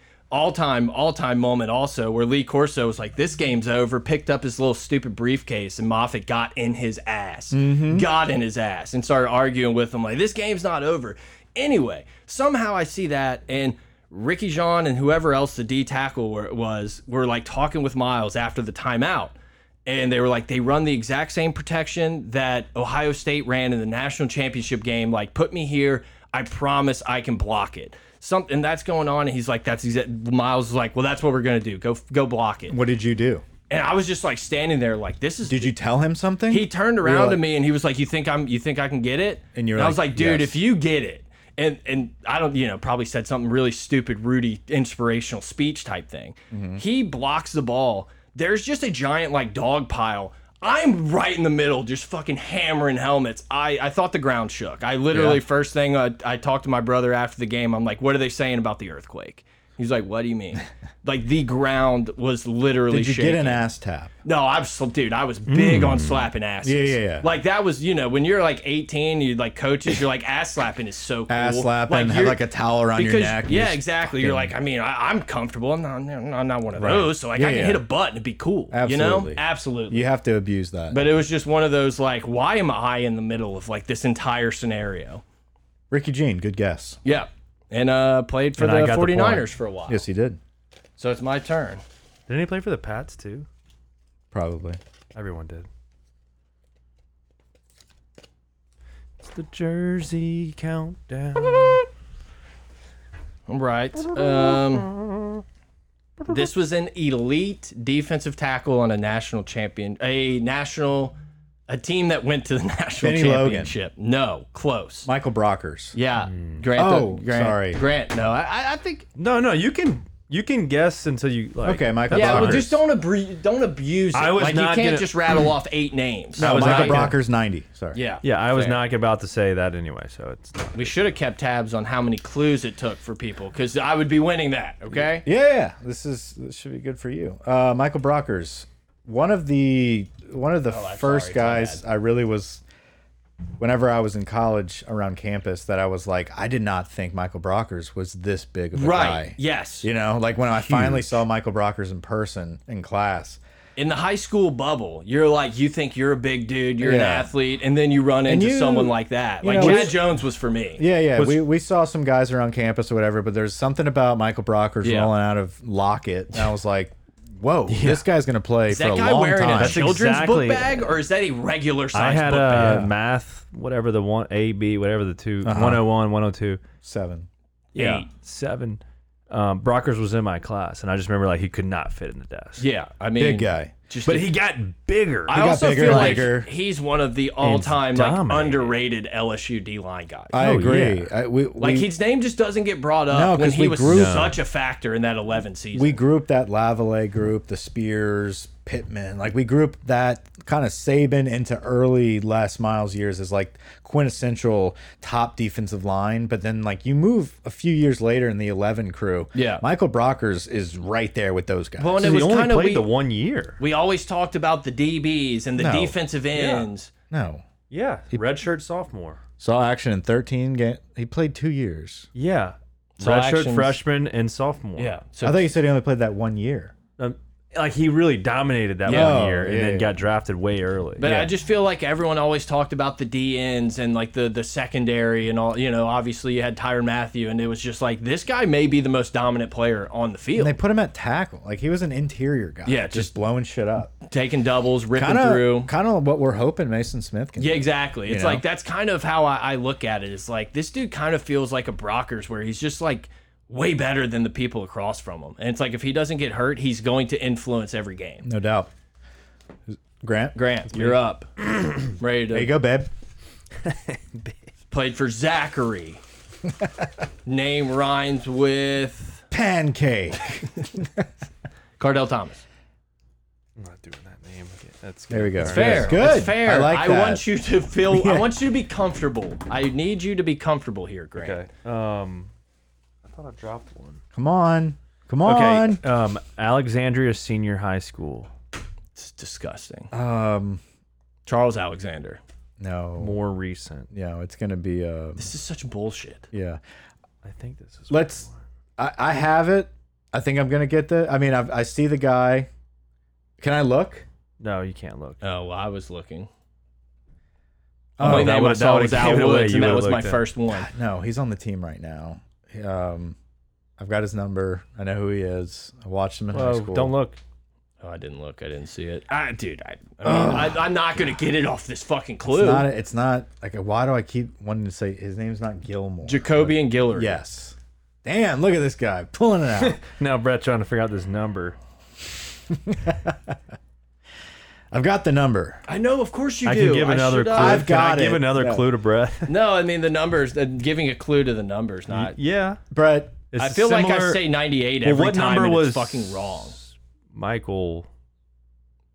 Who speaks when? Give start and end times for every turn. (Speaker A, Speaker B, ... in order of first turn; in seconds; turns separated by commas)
Speaker A: 0.3-19.4, Speaker B: 7.5-8.1, Speaker A: 19.9-32.8, Speaker B: 32.7-33.4, Speaker A: 33.7-35.8, Speaker B: 35.5-37.4, Speaker A: 36.5-63.6, Speaker B: 39.5-40.6, Speaker B: 46.5-46.8, Speaker B: 55.1-55.4, Speaker B: 62.9-64.1, Speaker A: 64.2-72.4, Speaker C: 65.5-66.3, Speaker B: 66.6-67.3, Speaker B: 71.3-74.5, Speaker A: 72.9-80.1, Speaker B: 76.8-77.8, Speaker B: 78.7-81.1, Speaker A: 80.9-85.2, Speaker B: 85.9-87.0, Speaker A: 87.0-90.0, Speaker C: 88.6-89.5, Speaker B: 89.9-90.4, Speaker A: 91.0-91.8, Speaker C: 92.3-93.5, Speaker B: 94.3-94.8, Speaker C: 95.1-95.7, Speaker C: 99.2-101.9, Speaker A: 103.5-104.9, Speaker C: 104.1-105.4, Speaker A: 106.3-111.1, Speaker A: 111.7-115.1, Speaker B: 113.0-113.7, Speaker B: 115.1-116.0, Speaker A: 115.9-119.1, Speaker C: 116.3-116.6, Speaker B: 116.8-117.8, Speaker C: 119.2-122.8, Speaker B: 121.6-122.8, Speaker A: 122.1-127.1, Speaker C: 124.1-125.5, Speaker C: 126.4-127.1, Speaker B: 126.4-128.0, Speaker A: 127.9-128.8, Speaker C: 128.2-131.1, Speaker A: 130.7-135.3, Speaker B: 134.9-142.6, Speaker A: 140.7-141.8, Speaker B: 143.6-153.4, Speaker A: 148.7-149.9, Speaker A: 153.8-160.8, Speaker B: 156.8-157.3, Speaker B: 158.3-160.0, Speaker C: 159.5-159.9, Speaker B: 160.8-169.9, Speaker C: 161.2-161.4, Speaker A: 164.8-165.1, Speaker C: 167.7-168.1, Speaker A: 168.7-172.9, Speaker C: 169.6-170.9, Speaker C: 171.9-176.6, Speaker B: 175.4-175.8, Speaker B: 176.8-177.3, Speaker A: 177.8-178.1, Speaker C: 177.8-182.7, Speaker A: 182.6-184.3, Speaker B: 183.2-183.7, Speaker C: 184.1-186.3, Speaker A: 185.3-190.5, Speaker B: 185.3-186.5, Speaker C: 187.4-188.8, Speaker B: 190.3-191.9, Speaker C: 190.3-191.1, Speaker A: 191.6-196.0, Speaker B: 193.1-194.3, Speaker C: 193.9-194.4, Speaker B: 195.8-212.1, Speaker A: 209.3-209.6, Speaker A: 211.8-212.9, Speaker C: 212.0-213.6, Speaker A: 213.6-216.9, Speaker B: 215.6-216.0, Speaker C: 216.3-216.7, Speaker B: 217.1-217.4, Speaker C: 217.7-219.2, Speaker B: 219.4-222.1, Speaker C: 222.2-225.0, Speaker A: 223.0-223.8, Speaker A: 224.8-225.5, Speaker B: 225.2-226.8, Speaker C: 227.0-231.1, Speaker A: 228.8-229.2, Speaker B: 228.9-229.9, Speaker A: 231.0-240.6, Speaker B: 231.0-231.3, Speaker B: 240.3-243.9, Speaker A: 242.7-243.1, Speaker A: 244.1-245.7, Speaker B: 245.0-248.4, Speaker A: 247.4-258.3, Speaker B: 258.2-258.7, Speaker B: 259.7-261.0, Speaker A: 260.4-261.3, Speaker A: 261.8-262.5, Speaker B: 262.3-262.9, Speaker C: 263.6-264.4, Speaker A: 264.7-266.0, Speaker A: 267.2-269.2, Speaker B: 269.3-271.1, Speaker A: 271.8-272.4, Speaker C: 273.6-276.1, Speaker B: 275.1-277.2, Speaker A: 275.4-281.4, Speaker B: 277.9-278.4, Speaker C: 281.1-282.3, Speaker C: 283.1-284.0, Speaker B: 284.1-285.8, Speaker C: 285.2-288.3, Speaker A: 288.9-289.9, Speaker B: 289.9-290.6, Speaker A: 291.2-292.2, Speaker B: 292.6-293.2, Speaker C: 293.0-293.9, Speaker B: 293.9-295.3, Speaker A: 295.2-296.3, Speaker B: 296.3-296.6, Speaker C: 297.2-298.4, Speaker B: 297.9-298.2, Speaker B: 298.8-302.5, Speaker B: 303.4-304.1, Speaker C: 304.4-305.2, Speaker A: 305.2-306.3, Speaker B: 308.0-308.4, Speaker C: 308.0-310.2, Speaker A: 308.0-310.7, Speaker B: 310.5-313.1, Speaker B: 313.8-316.9, Speaker C: 316.3-317.2, Speaker A: 317.8-322.7, Speaker B: 320.0-320.7, Speaker B: 322.3-329.8, Speaker A: 326.0-327.2, Speaker C: 329.6-331.6, Speaker B: 332.5-333.4, Speaker B: 334.7-335.6, Speaker A: 335.7-337.7, Speaker C: 336.4-339.3, Speaker B: 337.4-338.6, Speaker A: 339.3-342.1, Speaker C: 341.9-342.6, Speaker B: 342.7-343.2, Speaker C: 343.3-344.3, Speaker A: 343.4-346.6, Speaker C: 344.8-347.9